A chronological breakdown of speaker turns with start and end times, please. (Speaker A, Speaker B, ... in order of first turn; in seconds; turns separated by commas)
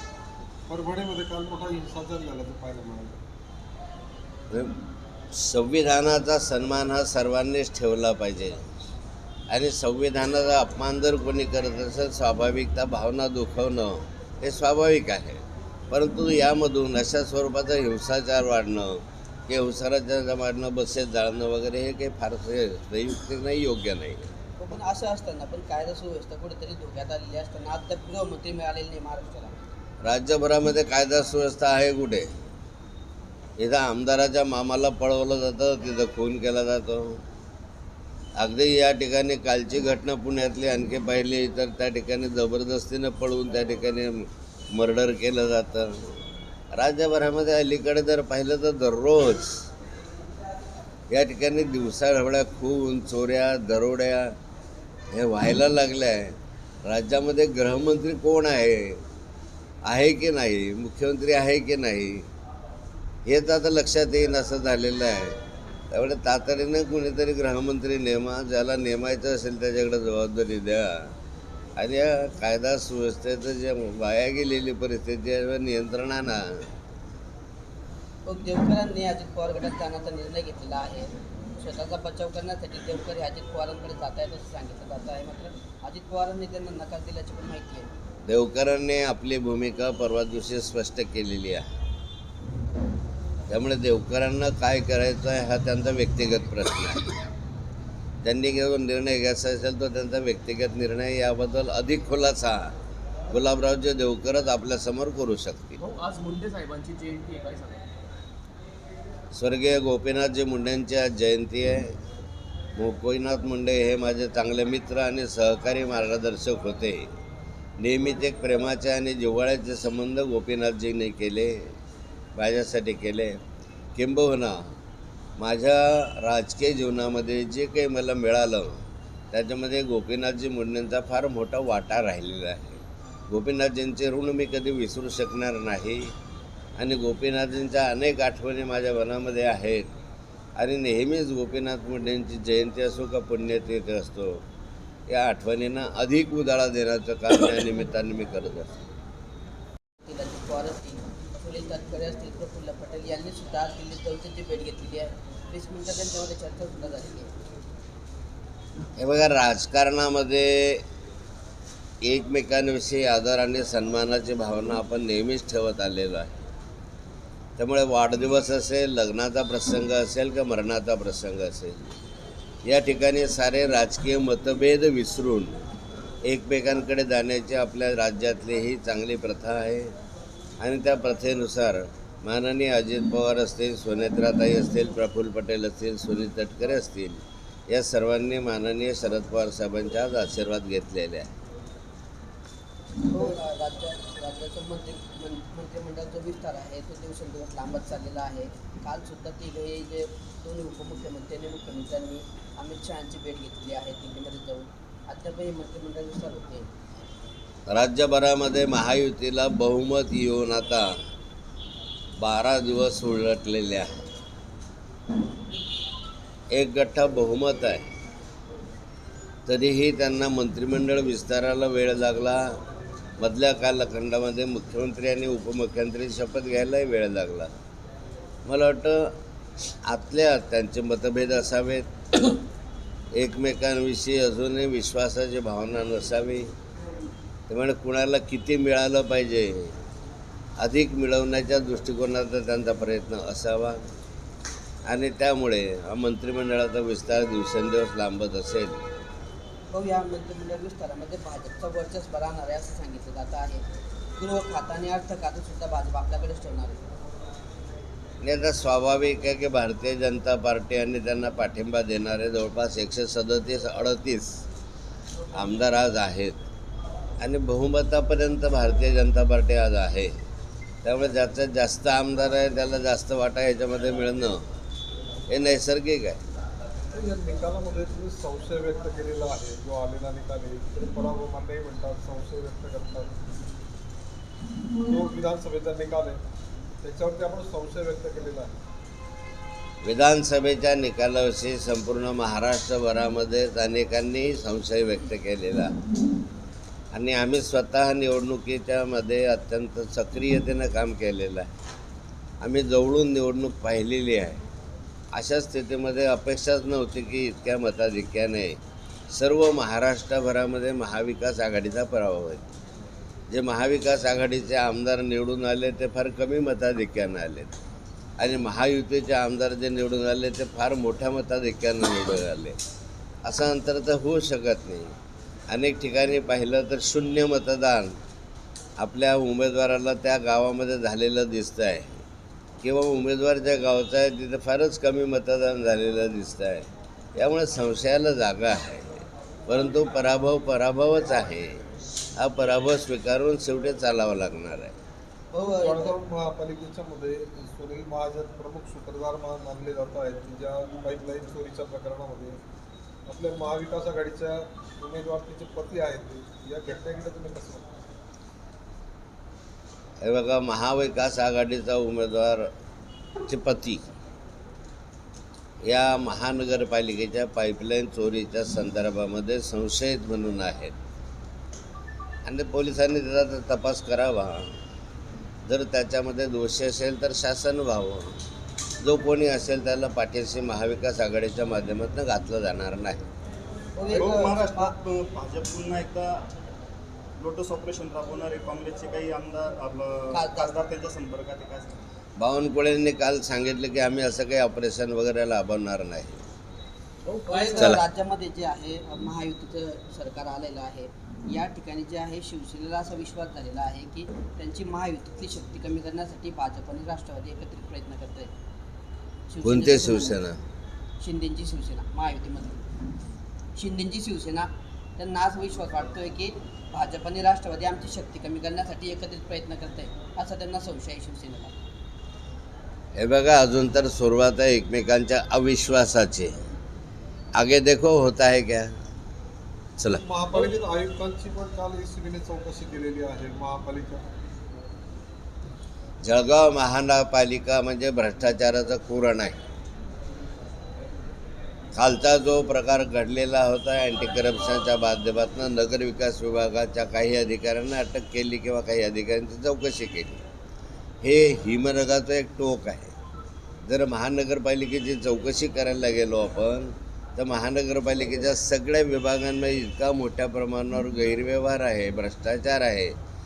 Speaker A: 0.7-3.2, Speaker B: 5.3-8.6, Speaker B: 9.5-24.3, Speaker C: 24.6-29.7, Speaker B: 30.0-32.3, Speaker B: 33.6-37.2, Speaker B: 38.4-46.1, Speaker B: 46.7-49.7, Speaker B: 51.1-54.3, Speaker B: 55.1-59.0, Speaker B: 59.8-62.3, Speaker B: 63.2-65.4, Speaker B: 65.9-71.1, Speaker B: 71.8-76.7, Speaker C: 78.2-87.9, Speaker B: 88.2-91.6, Speaker B: 93.5-97.1, Speaker B: 98.2-102.7, Speaker B: 103.3-105.8, Speaker D: 105.8-107.9, Speaker B: 109.3-111.9, Speaker B: 112.8-117.1, Speaker B: 117.8-121.7, Speaker B: 122.3-123.4, Speaker B: 123.9-124.7, Speaker B: 125.4-136.1, Speaker B: 136.8-139.9, Speaker B: 140.6-144.4, Speaker B: 145.1-148.7, Speaker C: 150.0-157.3, Speaker B: 159.0-160.8, Speaker B: 162.0-166.5, Speaker B: 167.6-171.9, Speaker B: 172.6-175.6, Speaker B: 176.2-179.9, Speaker B: 180.6-191.3, Speaker C: 193.1-206.7, Speaker B: 207.7-210.9, Speaker B: 212.2-213.9, Speaker B: 216.5-217.8, Speaker B: 219.4-222.6, Speaker B: 223.2-227.5, Speaker B: 228.4-229.1, Speaker B: 229.8-231.9, Speaker B: 233.1-236.5, Speaker B: 237.5-239.8, Speaker B: 240.6-243.8, Speaker B: 244.8-248.8, Speaker C: 249.7-253.6, Speaker C: 254.2-256.9, Speaker B: 258.2-264.4, Speaker B: 265.3-266.4, Speaker B: 267.2-270.1, Speaker B: 270.8-274.4, Speaker B: 275.3-276.2, Speaker A: 276.9-283.1, Speaker A: 284.8-286.2, Speaker A: 286.8-288.5, Speaker B: 289.8-295.7, Speaker B: 296.9-301.5, Speaker B: 302.4-304.4, Speaker B: 305.1-308.6, Speaker B: 309.1-312.4, Speaker B: 313.3-317.5, Speaker B: 318.2-322.6, Speaker B: 323.2-324.9, Speaker B: 325.5-328.0, Speaker B: 328.8-332.0, Speaker B: 332.6-341.6, Speaker B: 342.1-344.7, Speaker C: 345.3-345.9, Speaker A: 345.6-352.4, Speaker A: 353.1-357.7, Speaker B: 360.0-362.5, Speaker B: 363.3-363.8, Speaker B: 365.6-370.7, Speaker B: 372.2-374.5, Speaker B: 375.5-378.2, Speaker B: 378.8-383.0, Speaker C: 383.8-384.7, Speaker E: 383.9-386.3, Speaker E: 387.2-391.7, Speaker C: 390.1-390.5, Speaker B: 392.2-396.2, Speaker C: 397.2-408.3, Speaker B: 397.6-397.8, Speaker C: 409.3-410.2, Speaker B: 409.4-410.4, Speaker C: 411.0-412.6, Speaker C: 413.6-421.5, Speaker B: 422.9-426.3, Speaker B: 427.3-428.7, Speaker A: 429.9-434.0, Speaker B: 436.0-439.4, Speaker B: 441.7-450.2, Speaker B: 451.0-452.9, Speaker B: 453.7-462.9